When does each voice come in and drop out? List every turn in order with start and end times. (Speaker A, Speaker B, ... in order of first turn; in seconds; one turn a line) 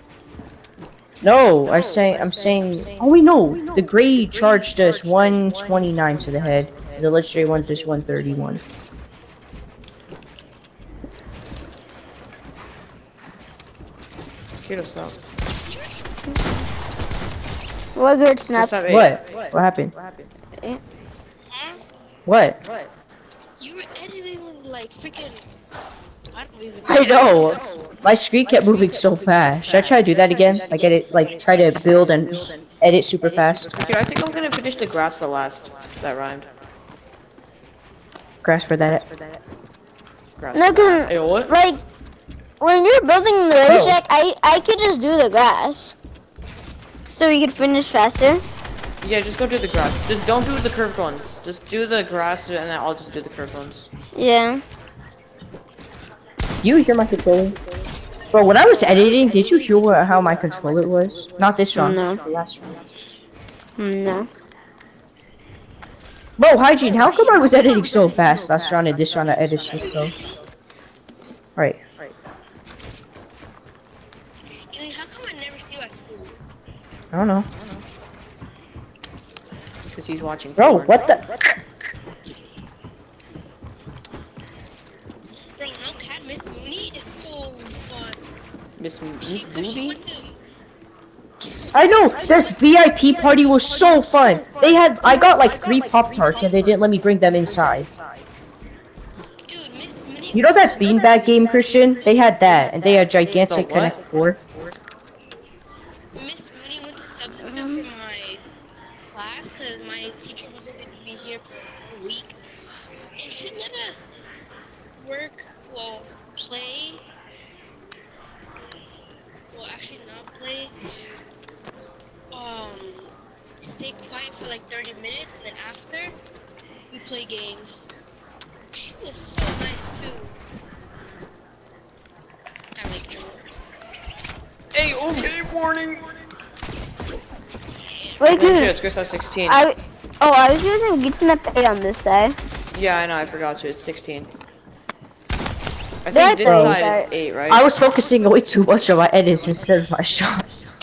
Speaker A: 1.2-8.6
Speaker B: 14.6-15.2
Speaker C: 15.7-16.0
Speaker D: 18.0-18.8
Speaker B: 18.6-19.2
Speaker A: 18.9-19.9
Speaker B: 20.0-20.3
Speaker C: 21.5-21.8
Speaker A: 22.3-22.6
Speaker C: 23.6-25.4
Speaker C: 26.3-27.6
Speaker A: 26.9-33.8
Speaker B: 33.7-36.5
Speaker A: 38.4-39.1
Speaker B: 40.4-41.5
Speaker D: 40.5-41.8
Speaker D: 42.6-46.0
Speaker A: 43.7-44.0
Speaker D: 47.1-48.4
Speaker B: 49.0-53.9
Speaker D: 54.1-54.6
Speaker A: 56.6-57.6
Speaker A: 58.3-62.7
Speaker D: 61.8-62.2
Speaker D: 63.8-64.3
Speaker A: 66.4-70.1
Speaker C: 69.7-70.2
Speaker C: 74.7-76.4
Speaker A: 77.1-77.5
Speaker B: 79.9-81.2
Speaker A: 80.6-81.2
Speaker C: 85.6-88.2
Speaker B: 88.8-90.0
Speaker C: 89.2-90.4
Speaker A: 91.7-98.0
Speaker C: 99.5-102.0
Speaker A: 100.3-104.4
Speaker B: 103.5-104.0
Speaker C: 106.2-108.4
Speaker D: 107.4-107.9
Speaker C: 109.1-112.4
Speaker C: 113.2-114.1
Speaker C: 115.0-117.0
Speaker C: 119.5-120.7
Speaker C: 122.3-123.1
Speaker C: 123.6-126.2
Speaker C: 126.9-127.9
Speaker C: 128.7-130.3
Speaker C: 132.8-133.5
Speaker B: 134.7-136.1
Speaker C: 137.9-138.2
Speaker D: 138.2-138.7
Speaker B: 138.3-139.6
Speaker D: 139.5-142.4
Speaker B: 142.7-144.3
Speaker B: 146.1-147.7
Speaker D: 146.1-147.0
Speaker A: 146.4-146.8
Speaker A: 147.5-150.4